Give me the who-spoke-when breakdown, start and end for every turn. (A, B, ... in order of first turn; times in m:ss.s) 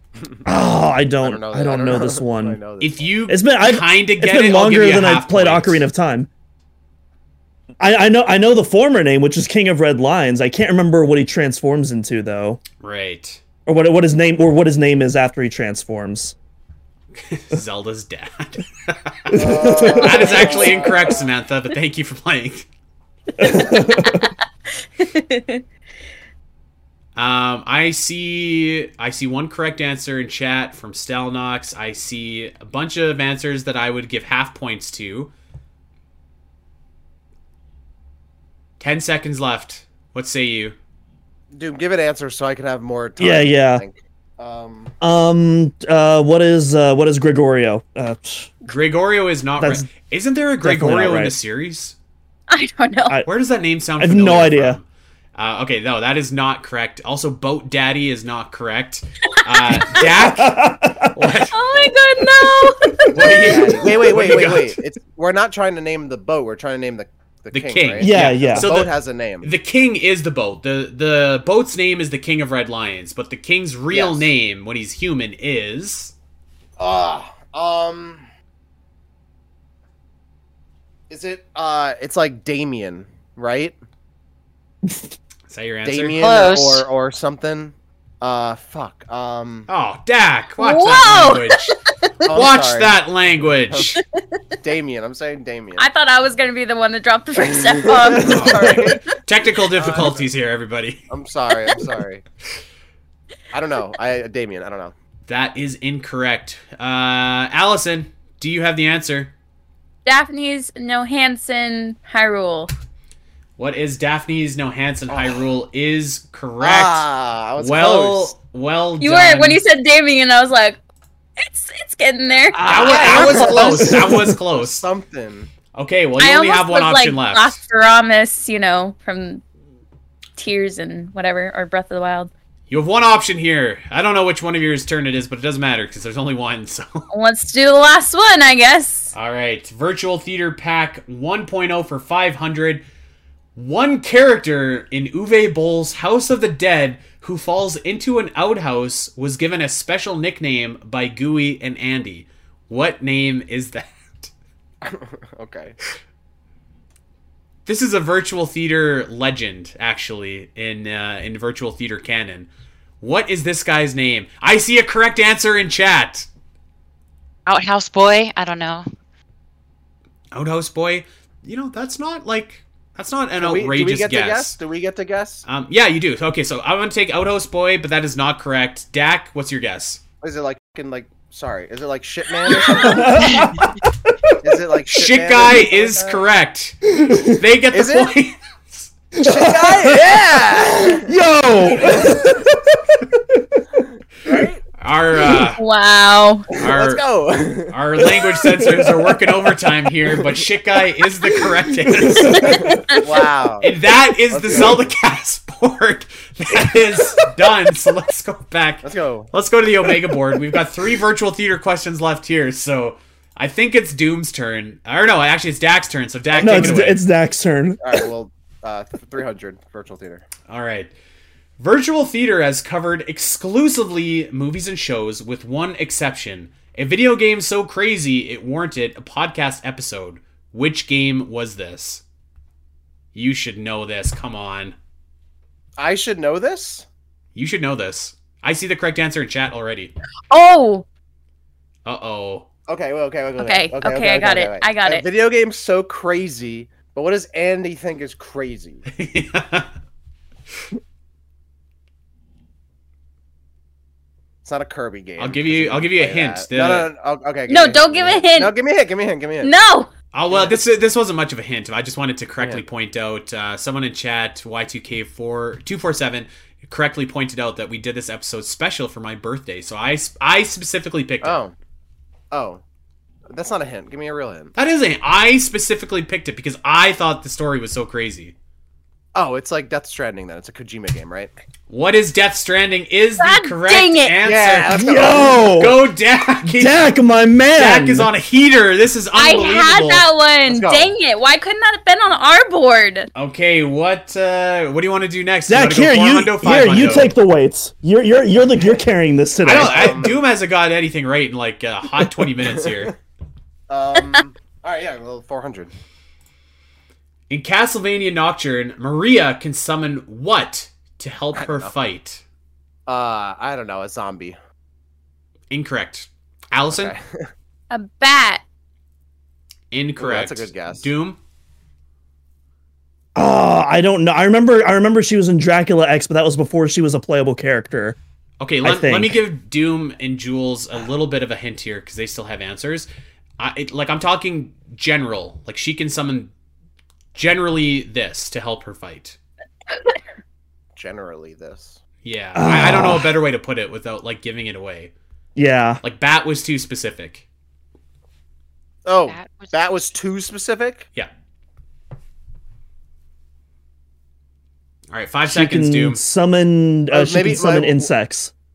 0:00.2-0:00.4 A
0:00.5-0:02.6 B
0:01.2-0:03.1 A
0:02.8-0:05.8 C
0:03.3-0:06.3 B
0:07.8-0:12.6 B
0:12.8-0:13.4 C
0:13.7-0:16.4 B
0:17.2-0:22.7 C
0:19.3-0:21.2 A
0:19.3-0:20.6 B
0:23.4-0:24.3 B
0:23.5-0:24.3 D
0:25.0-0:25.6 D
0:27.2-0:35.3 C
0:38.8-0:40.8 C
0:41.5-0:44.9 A
0:43.2-0:43.8 B
0:45.0-0:48.5 B
0:48.7-0:52.0 C
0:49.6-0:49.9 B
0:50.6-0:51.4 B
0:52.5-0:53.2 D
0:53.3-1:01.6 C
0:54.0-0:54.8 B
0:59.3-1:00.0 D
1:00.0-1:01.3 B
1:01.5-1:03.6 D
1:02.5-1:03.8 B
1:03.1-1:04.8 C
1:03.2-1:09.5 A
1:07.5-1:16.1 C
1:08.0-1:08.7 B
1:13.9-1:14.3 A
1:16.8-1:18.3 A
1:21.1-1:23.8 A
1:25.5-1:26.2 C
1:25.8-1:29.7 A
1:26.2-1:26.9 E
1:29.7-1:31.8 C
1:30.6-1:32.2 D
1:32.2-1:33.0 A
1:32.3-1:34.0 C
1:34.6-1:35.9 A
1:35.8-1:38.9 D
1:37.7-1:39.1 A
1:38.2-1:41.0 C
1:39.8-1:40.3 A
1:41.1-1:42.2 A
1:43.5-1:44.9 A
1:45.3-1:49.3 C
1:50.0-1:52.7 D
1:53.6-1:57.1 C
1:55.1-1:55.4 A
1:56.6-1:58.3 A
1:57.6-1:59.6 C
1:59.0-2:00.8 D
2:01.4-2:03.6 D
2:02.5-2:05.5 A
2:02.6-2:04.9 C
2:05.7-2:07.6 C
2:06.2-2:09.4 D
2:10.4-2:12.3 D
2:12.7-2:17.1 C
2:17.1-2:19.1 D
2:19.1-2:22.8 C
2:23.6-2:34.3 C
2:34.8-2:35.8 A
2:37.7-2:42.5 C
2:43.0-2:46.3 C
2:47.5-2:48.9 E
2:50.3-2:54.6 C
2:53.4-2:55.4 A
2:55.4-3:00.0 C
3:00.2-3:03.4 A
3:02.7-3:04.4 B
3:04.4-3:06.2 A
3:04.9-3:08.9 C
3:07.0-3:07.4 B
3:07.7-3:08.1 A
3:09.2-3:13.6 B
3:09.2-3:11.1 A
3:11.8-3:12.2 A
3:14.2-3:14.6 A
3:14.8-3:15.6 C
3:15.6-3:16.5 D
3:16.5-3:17.0 C
3:16.6-3:18.2 A
3:17.7-3:22.6 C
3:18.4-3:19.0 B
3:21.9-3:22.8 B
3:22.2-3:23.0 D
3:22.3-3:23.7 A
3:23.6-3:37.0 C
3:24.3-3:24.9 A
3:28.8-3:29.3 A
3:36.3-3:36.9 A
3:36.4-3:38.1 B
3:37.8-3:40.3 A
3:40.5-3:40.9 C
3:41.6-3:52.0 C
3:53.2-3:54.8 C
3:55.8-3:56.9 A
3:57.4-3:59.9 C
4:00.3-4:00.9 D
4:01.9-4:02.5 C
4:02.7-4:08.8 A
4:03.4-4:05.0 D
4:08.9-4:09.7 C
4:14.4-4:19.5 A
4:15.2-4:16.9 C
4:17.5-4:18.5 D
4:19.4-4:19.9 D
4:20.1-4:31.4 C
4:20.3-4:20.6 A
4:31.2-4:31.6 A
4:32.3-4:32.6 A
4:33.3-4:34.5 A
4:34.6-4:38.3 C
4:39.2-4:41.3 A
4:41.7-4:46.9 C
4:43.2-4:44.2 D
4:44.2-4:45.6 A
4:44.7-4:45.8 B
4:46.5-4:48.1 B
4:47.6-4:50.0 C
4:49.2-4:53.1 D
4:50.5-4:50.9 A
4:53.2-4:57.2 C
4:55.5-5:00.0 B
4:59.4-5:03.0 C
4:59.5-5:00.2 A
5:03.7-5:05.7 A
5:07.3-5:12.2 C
5:11.4-5:11.7 A
5:12.9-5:14.4 A
5:15.5-5:16.9 C
5:16.7-5:17.3 A
5:17.7-5:18.4 D
5:19.7-5:21.2 C
5:20.0-5:20.9 A
5:23.2-5:28.0 B
5:28.4-5:32.9 C
5:28.6-5:29.2 B
5:33.4-5:36.3 C
5:37.2-5:39.2 C
5:40.8-5:41.8 A
5:42.0-5:44.9 C
5:42.4-5:43.1 B
5:45.4-5:45.8 B
5:45.8-5:47.3 C
5:48.8-5:50.9 A
5:49.1-5:49.5 E
5:54.9-5:56.0 C
5:55.3-5:58.3 B
5:56.9-5:57.9 A